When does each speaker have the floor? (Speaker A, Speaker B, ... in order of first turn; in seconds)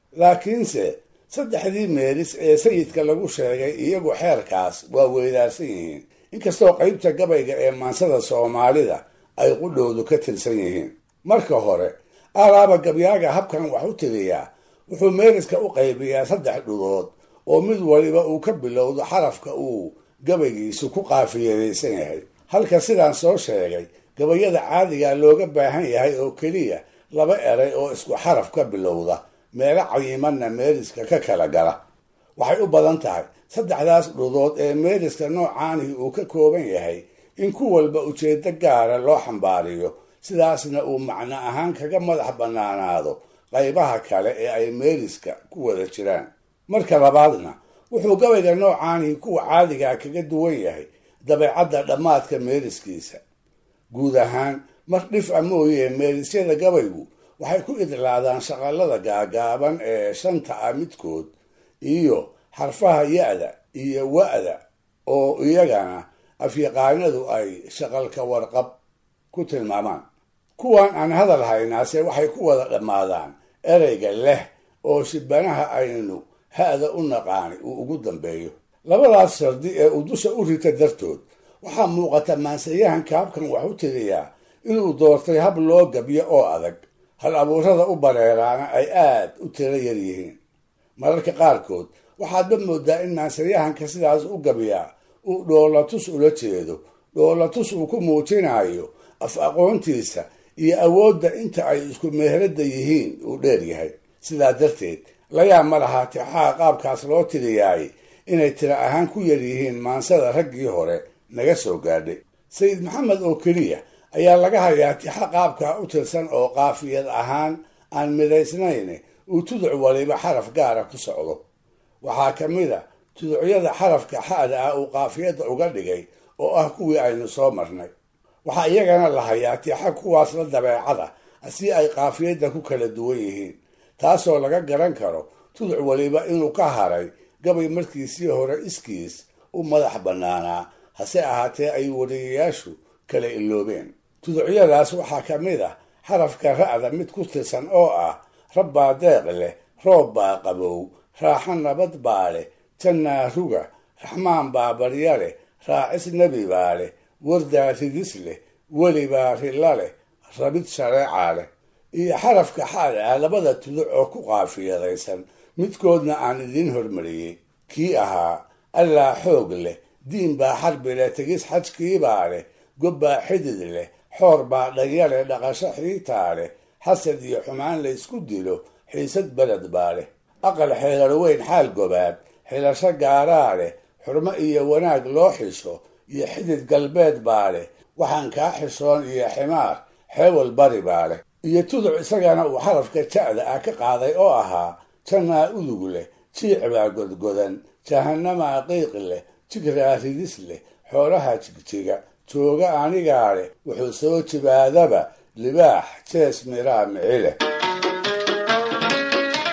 Speaker A: 0.2-31.8, 32.4-53.2, 53.9-61.3, 61.8-68.8, 69.3-70.0, 70.6-90.4, 91.0-121.4, 122.0-127.9, 128.4-207.4